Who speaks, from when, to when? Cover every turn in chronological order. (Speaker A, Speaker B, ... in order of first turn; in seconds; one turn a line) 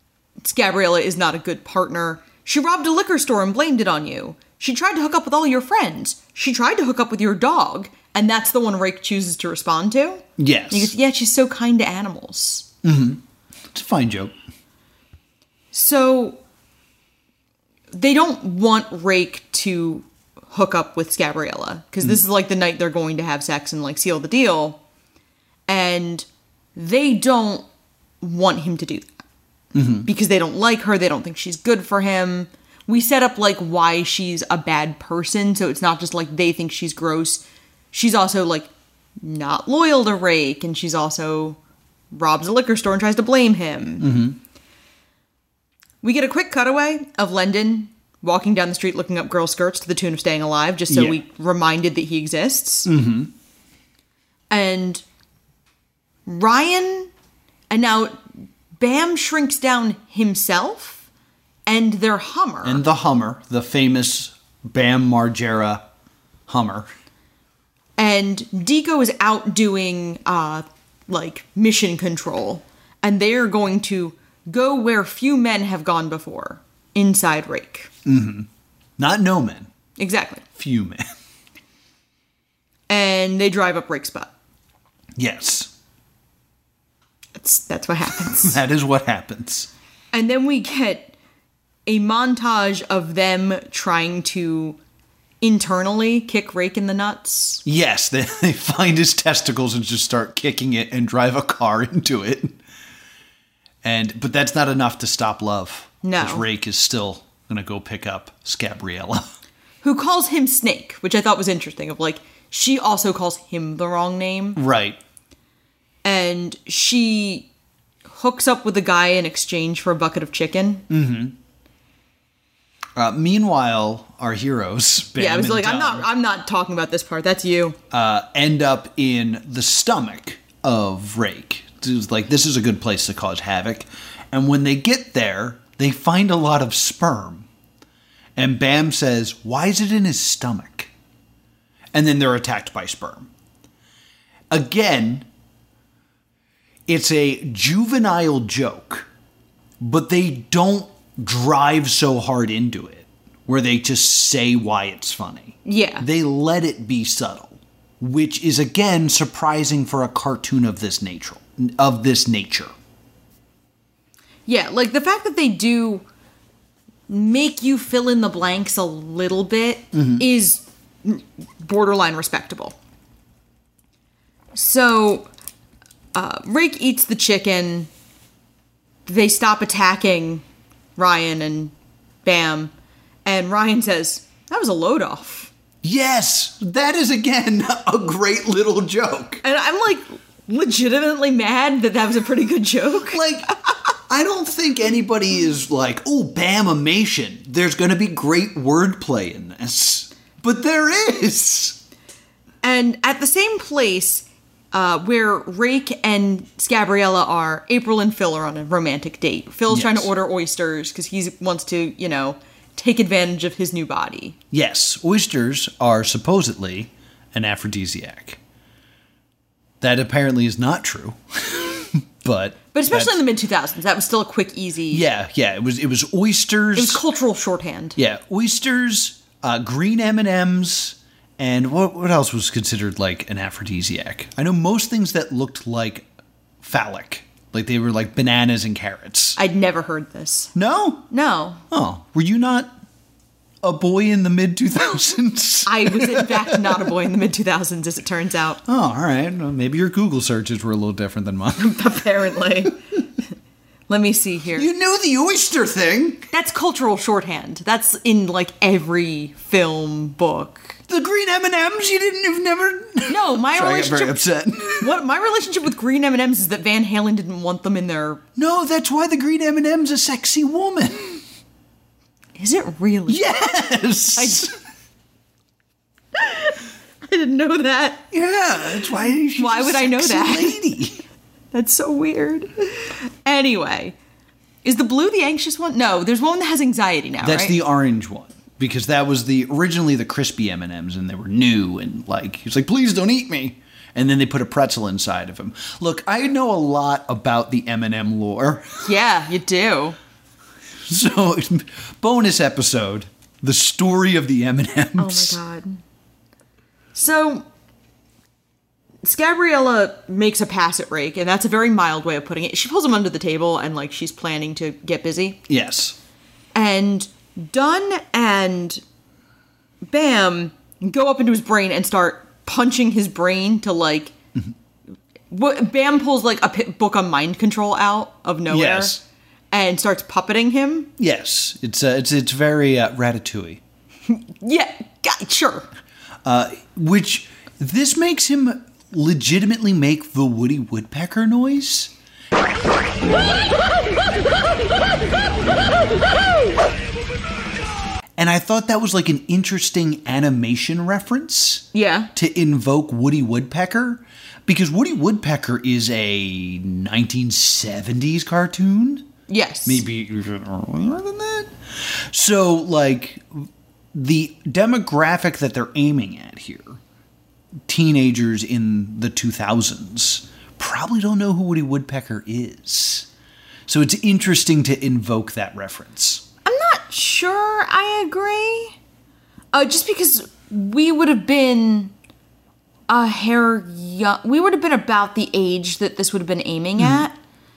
Speaker A: 0.4-12.7
Speaker B: 10.4-10.9
Speaker B: 12.8-13.2
Speaker B: 13.7-14.3
Speaker A: 15.7-16.4
Speaker A: 17.9-24.8
Speaker A: 25.7-27.7
Speaker A: 28.2-29.1
Speaker B: 29.7-30.1
Speaker A: 30.1-41.6
Speaker A: 42.1-44.1
Speaker B: 44.0-44.4
Speaker A: 46.0-52.9
Speaker B: 50.9-51.2
Speaker B: 52.9-53.3
Speaker A: 54.5-55.0
Speaker A: 56.2-57.1
Speaker A: 57.7-58.2
Speaker A: 58.7-61.0
Speaker A: 61.6-62.8
Speaker B: 62.6-65.8
Speaker B: 66.5-66.9
Speaker A: 68.0-77.9
Speaker B: 78.0-79.7
Speaker A: 80.0-80.4
Speaker B: 80.5-81.1
Speaker A: 82.9-84.3
Speaker B: 85.2-85.7
Speaker A: 87.3-88.6
Speaker B: 88.3-89.7
Speaker A: 90.1-91.1
Speaker A: 91.8-94.8
Speaker A: 95.4-97.6
Speaker B: 97.6-102.5
Speaker B: 103.8-109.3
Speaker A: 106.0-106.4
Speaker A: 109.8-114.6
Speaker B: 114.5-115.0
Speaker A: 116.0-117.5
Speaker A: 118.1-120.8
Speaker B: 120.9-121.3
Speaker B: 123.0-126.1
Speaker A: 125.2-127.8
Speaker B: 127.9-137.5
Speaker B: 138.4-140.9
Speaker B: 141.9-143.3
Speaker B: 144.5-145.3
Speaker B: 146.9-149.1
Speaker B: 149.8-162.7
Speaker A: 155.6-156.1
Speaker A: 164.4-166.0
Speaker A: 167.1-172.8
Speaker B: 169.9-170.2
Speaker A: 174.5-175.3
Speaker A: 176.1-177.9
Speaker A: 179.1-180.4
Speaker A: 180.9-181.7
Speaker A: 182.2-182.7
Speaker A: 183.2-185.5
Speaker B: 185.8-189.4
Speaker A: 189.4-193.3
Speaker B: 193.1-193.5
Speaker B: 194.1-201.8
Speaker A: 202.6-214.4
Speaker B: 209.7-210.1
Speaker B: 214.5-218.4
Speaker B: 219.8-223.2
Speaker A: 222.7-225.0
Speaker B: 224.9-227.0
Speaker A: 226.7-228.0
Speaker B: 227.9-236.1
Speaker B: 236.6-239.4
Speaker A: 239.4-240.5
Speaker B: 240.5-241.1
Speaker A: 241.1-241.6
Speaker B: 241.7-242.7
Speaker B: 243.6-246.8
Speaker A: 245.7-248.6
Speaker B: 248.7-251.8
Speaker A: 251.6-252.8
Speaker A: 253.9-254.7
Speaker B: 254.6-256.2
Speaker A: 256.3-260.8
Speaker B: 260.9-264.9
Speaker A: 263.1-264.2
Speaker A: 264.8-268.2
Speaker B: 268.4-271.2
Speaker A: 272.4-274.5
Speaker B: 273.1-274.6
Speaker A: 276.1-278.1
Speaker B: 278.1-281.0
Speaker A: 279.4-280.6
Speaker A: 281.5-283.9
Speaker A: 284.6-287.6
Speaker B: 287.2-298.8
Speaker A: 298.8-300.0
Speaker B: 300.9-305.4
Speaker A: 305.0-305.8
Speaker A: 306.9-307.4
Speaker A: 309.0-315.4
Speaker B: 315.5-315.9
Speaker A: 316.5-318.8
Speaker A: 319.9-324.1
Speaker A: 325.3-328.9
Speaker B: 328.5-329.0
Speaker A: 329.5-330.9
Speaker B: 331.0-333.6
Speaker A: 334.1-335.7
Speaker B: 336.2-341.9
Speaker B: 348.2-359.1
Speaker A: 351.7-352.1
Speaker A: 359.3-359.8
Speaker B: 359.6-361.5
Speaker B: 362.1-366.8
Speaker B: 367.7-373.1
Speaker B: 373.7-376.2
Speaker A: 376.4-378.8
Speaker A: 379.5-381.9
Speaker A: 382.9-387.1
Speaker B: 386.8-387.1